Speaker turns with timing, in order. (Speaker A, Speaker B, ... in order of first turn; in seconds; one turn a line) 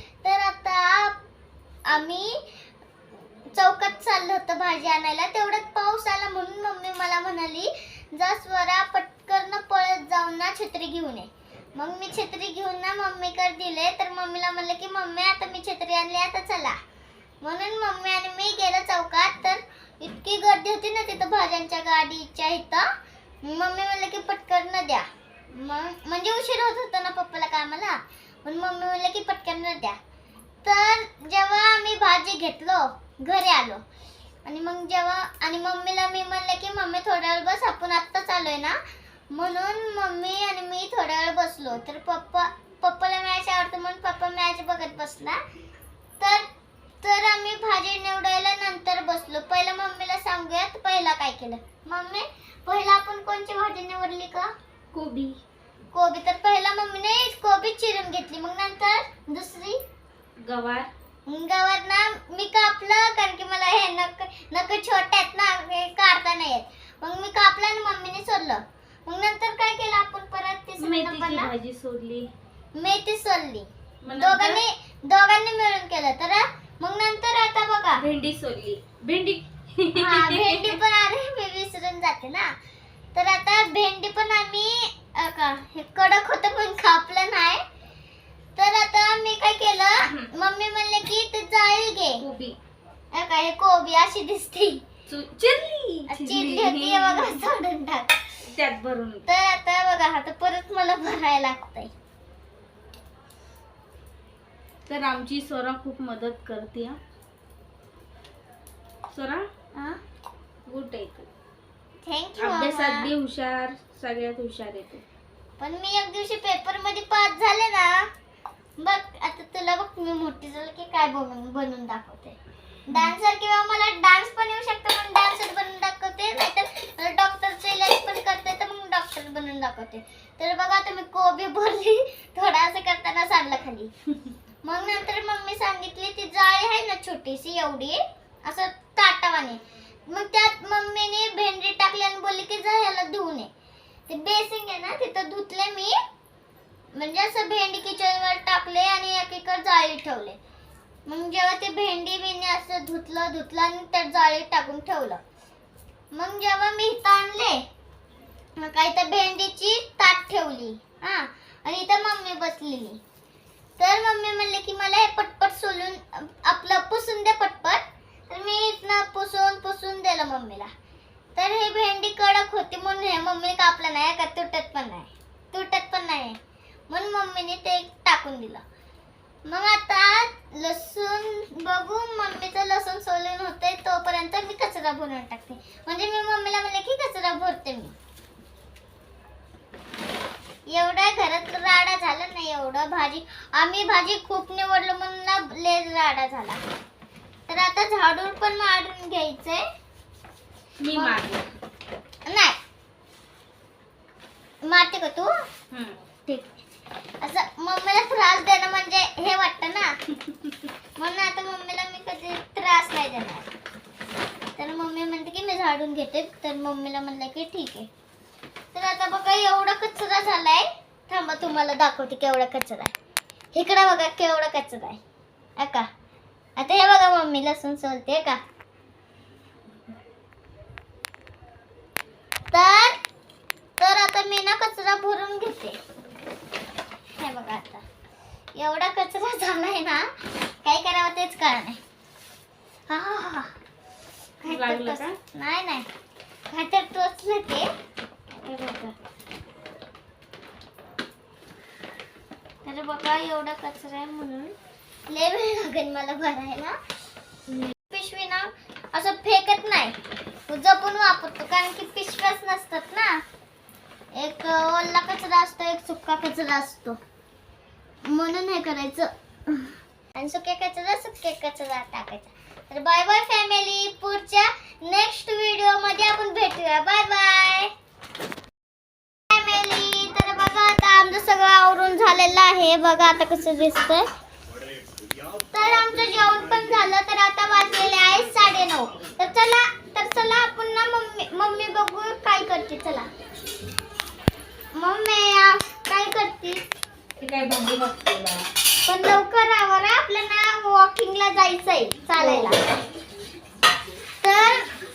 Speaker A: 0.2-1.2
Speaker A: 1.9-2.4
Speaker A: 3.5-16.8
Speaker A: 17.4-22.9
Speaker A: 23.4-30.0
Speaker A: 30.6-33.8
Speaker A: 34.5-38.8
Speaker A: 39.3-45.4
Speaker A: 46.2-46.5
Speaker A: 47.0-54.5
Speaker B: 54.9-55.4
Speaker A: 55.9-59.8
Speaker B: 60.4-60.9
Speaker A: 61.3-71.5
Speaker B: 70.8-72.3
Speaker A: 72.8-78.0
Speaker B: 74.0-74.6
Speaker B: 78.0-80.8
Speaker A: 80.0-82.5
Speaker A: 83.2-87.6
Speaker A: 88.6-92.2
Speaker B: 92.2-92.6
Speaker A: 93.1-94.8
Speaker B: 95.1-97.5
Speaker A: 96.1-98.2
Speaker B: 98.5-99.3
Speaker A: 99.3-101.9
Speaker B: 104.9-107.0
Speaker B: 109.1-109.5
Speaker A: 109.8-110.0
Speaker B: 110.7-111.3
Speaker A: 112.0-113.1
Speaker B: 112.4-115.0
Speaker A: 115.6-118.1
Speaker A: 118.8-122.3
Speaker A: 122.9-133.9
Speaker A: 134.6-143.5
Speaker A: 144.1-146.0
Speaker A: 146.9-150.4
Speaker A: 151.1-155.2
Speaker A: 156.1-157.6
Speaker A: 158.6-163.0
Speaker A: 163.8-170.7
Speaker A: 171.4-176.4
Speaker A: 176.9-178.6
Speaker A: 179.5-187.9
Speaker A: 190.7-196.6
Speaker A: 197.5-199.6
Speaker B: 200.8-201.5
Speaker A: 200.9-201.2
Speaker A: 202.3-202.6
Speaker A: 204.7-205.4
Speaker B: 205.7-206.0
Speaker A: 206.3-206.6
Speaker A: 207.2-209.9
Speaker A: 211.0-213.5
Speaker A: 214.6-217.9
Speaker A: 218.7-222.9
Speaker A: 223.5-225.0
Speaker A: 225.6-225.9
Speaker A: 226.6-228.4
Speaker A: 232.5-233.0
Speaker A: 233.8-235.8
Speaker A: 237.2-237.8
Speaker A: 238.6-240.1
Speaker A: 240.6-241.8
Speaker A: 242.9-243.5
Speaker A: 244.4-245.9
Speaker B: 244.4-245.2
Speaker A: 246.5-247.7
Speaker A: 248.4-248.9
Speaker A: 252.7-254.6
Speaker A: 255.1-256.8
Speaker A: 257.6-260.0
Speaker A: 260.5-263.2
Speaker A: 264.2-267.0
Speaker A: 268.1-277.7
Speaker A: 279.3-284.1
Speaker A: 285.5-293.1
Speaker A: 294.8-296.6
Speaker B: 297.2-298.4
Speaker A: 298.9-302.6
Speaker A: 304.2-304.6